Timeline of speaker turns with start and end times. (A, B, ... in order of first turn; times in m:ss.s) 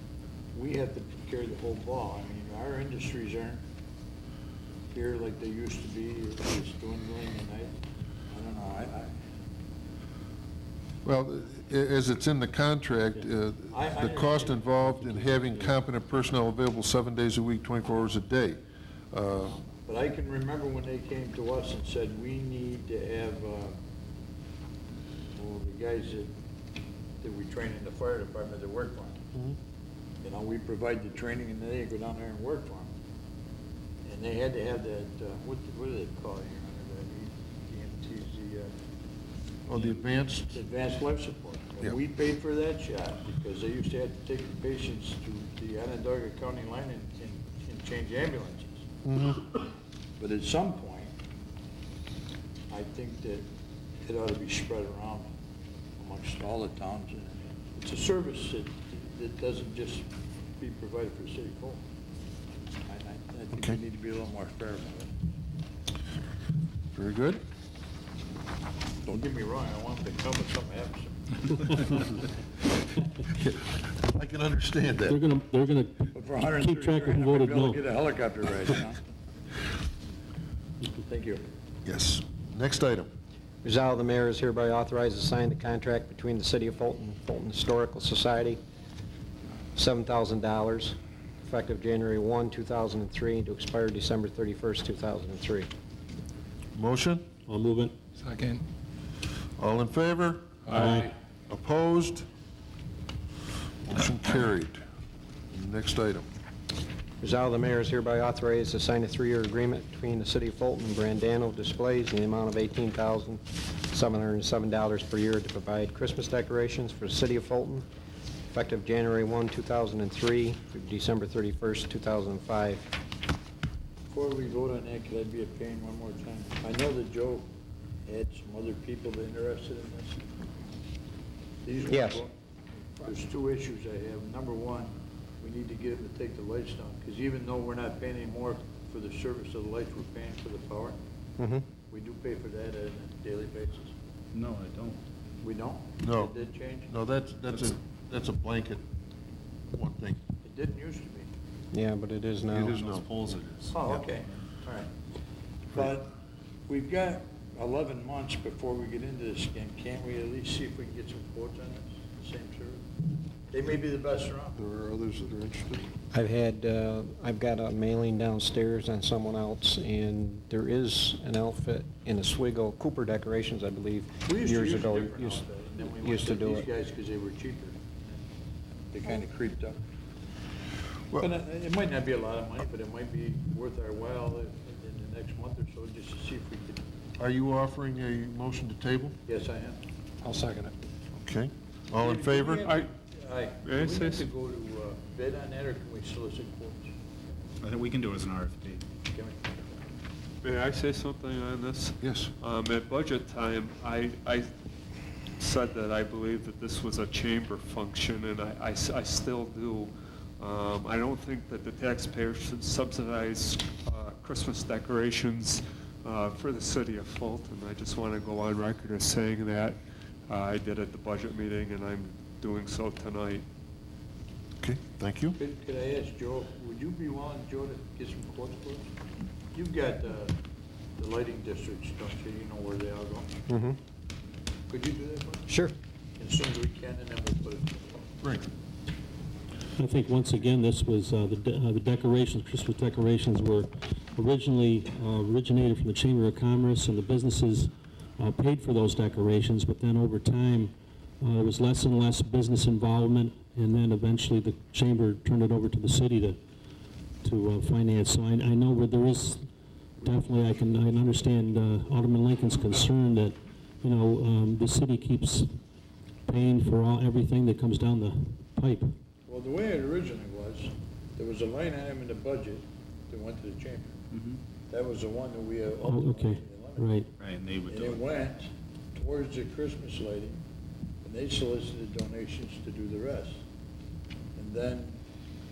0:00.6-0:03.6 A
0:04.9-0:07.8 A
0:08.3-0:09.2 A
0:11.0-0:18.6 B
0:13.7-0:15.7 A
0:19.1-0:19.6 B
0:19.6-0:23.8 A
0:25.4-0:26.3 A
0:27.2-0:29.2 A
0:30.2-0:32.9 A
0:34.0-0:38.7 A
0:39.7-0:40.6 B
0:40.5-0:48.9 A
0:49.0-0:49.5 B
0:50.2-0:51.1 A
0:52.7-0:53.4 A
0:54.1-0:55.3 A
0:56.0-1:00.1 A
1:00.6-1:01.8 A
1:02.9-1:05.1 A
1:03.5-1:03.8 B
1:06.9-1:07.4 B
1:09.0-1:12.0 A
1:13.3-1:15.2 B
1:15.0-1:17.8 C
1:16.1-1:19.0 A
1:21.0-1:21.4 A
1:21.8-1:23.1 B
1:23.6-1:28.6 D
1:29.8-1:35.7 D
1:36.7-1:37.3 B
1:37.5-1:38.0 C
1:39.6-1:42.3 B
1:40.7-1:41.1 C
1:43.9-1:44.8 B
1:45.5-1:46.3 B
1:47.2-1:57.9 D
1:58.5-2:03.0 D
2:04.1-2:07.5 A
2:08.1-2:10.2 A
2:11.6-2:12.3 A
2:11.9-2:12.2 D
2:13.0-2:21.0 A
2:21.4-2:21.6 D
2:21.9-2:23.9 A
2:24.3-2:25.0 E
2:25.4-2:26.9 A
2:26.0-2:26.4 B
2:26.9-2:28.8 B
2:29.7-2:30.2 B
2:30.4-2:31.3 A
2:31.7-2:32.8 D
2:32.5-2:33.1 B
2:32.7-2:33.7 E
2:33.7-2:34.9 A
2:35.7-2:36.2 A
2:36.7-2:42.8 A
2:43.5-2:44.6 A
2:44.6-2:45.9 B
2:46.1-2:56.7 D
2:54.3-2:58.2 A
2:58.9-2:59.8 A
3:01.1-3:06.8 A
3:07.2-3:09.2 B
3:09.3-3:09.8 A
3:10.2-3:10.8 D
3:11.2-3:12.7 B
3:12.0-3:16.9 A
3:13.6-3:14.2 F
3:17.6-3:18.8 E
3:19.1-3:19.6 A
3:20.4-3:24.5 F
3:22.0-3:22.3 B
3:25.4-3:39.8 F
3:40.3-3:43.4 F
3:44.6-3:45.4 B
3:45.4-3:48.9 A
3:49.5-3:50.4 A
3:51.0-3:53.4 A
3:53.5-3:53.8 D
3:54.7-3:55.5 A
3:55.5-3:55.7 D
3:56.2-3:58.0 A
3:59.8-4:16.4 C
4:17.2-4:19.4 C
4:20.0-4:25.5 C
4:26.3-4:28.9 C
4:29.3-4:34.0 A
4:34.1-4:34.4 E
4:34.7-4:36.9 A
4:35.8-4:37.1 C
4:37.2-4:38.0 E
4:37.7-4:40.4 A
4:41.0-4:43.4 A
4:44.4-4:45.0 A